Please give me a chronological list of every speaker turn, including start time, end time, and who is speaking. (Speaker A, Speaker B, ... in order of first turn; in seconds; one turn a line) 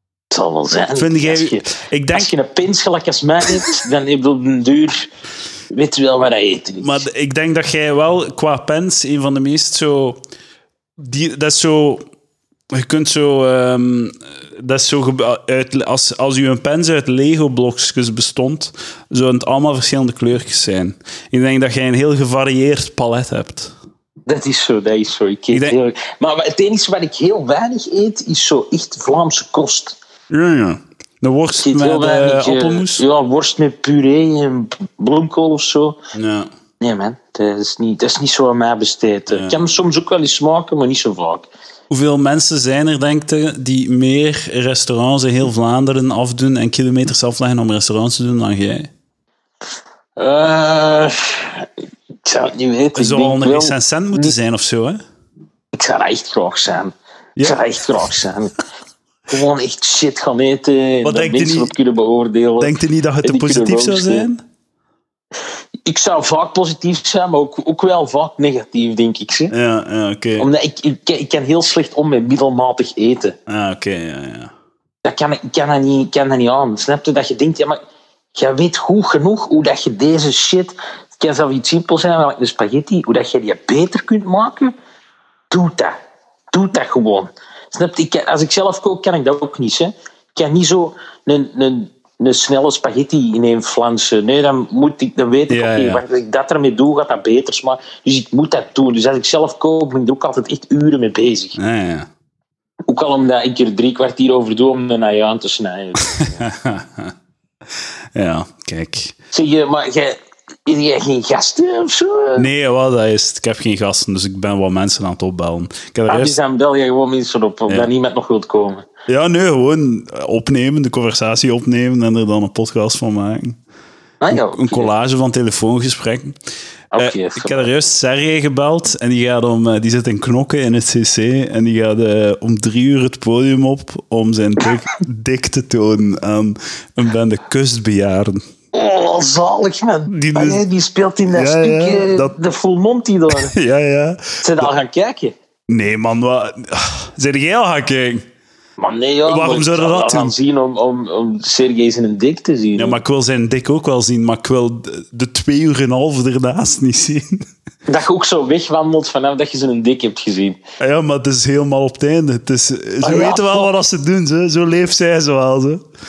Speaker A: 0.3-5.1
Speaker B: 0.9-2.3
Speaker A: 5.7-7.0
Speaker B: 6.8-10.2
Speaker B: 11.0-12.0
Speaker B: 12.7-23.7
Speaker A: 24.2-30.0
Speaker B: 25.5-25.8
Speaker B: 30.3-33.0
Speaker A: 31.6-36.0
Speaker B: 36.1-36.5
Speaker A: 36.8-41.5
Speaker B: 39.3-39.6
Speaker B: 41.9-48.9
Speaker A: 50.2-51.7
Speaker A: 52.2-54.3
Speaker B: 52.9-55.0
Speaker A: 55.7-58.5
Speaker B: 57.4-57.6
Speaker A: 59.3-64.3
Speaker B: 61.0-61.7
Speaker B: 62.6-64.4
Speaker A: 65.8-69.5
Speaker B: 69.5-70.5
Speaker A: 70.4-73.3
Speaker B: 73.5-74.5
Speaker A: 75.0-77.8
Speaker A: 78.3-84.7
Speaker A: 85.5-86.0
Speaker A: 86.5-101.6
Speaker B: 95.5-96.0
Speaker B: 101.6-102.1
Speaker A: 102.9-106.4
Speaker B: 106.1-107.1
Speaker B: 108.1-109.1
Speaker A: 109.3-112.5
Speaker B: 112.3-116.4
Speaker A: 116.1-118.8
Speaker B: 119.1-123.6
Speaker A: 124.2-124.9
Speaker B: 124.3-126.3
Speaker A: 126.9-127.7
Speaker B: 127.0-138.4
Speaker A: 138.7-143.5
Speaker B: 140.1-140.7
Speaker B: 141.3-142.3
Speaker B: 143.3-144.7
Speaker A: 144.4-145.3
Speaker B: 145.7-148.2
Speaker A: 148.8-153.0
Speaker B: 149.2-150.3
Speaker B: 152.8-157.4
Speaker A: 157.9-160.6
Speaker B: 160.8-165.8
Speaker A: 163.0-163.7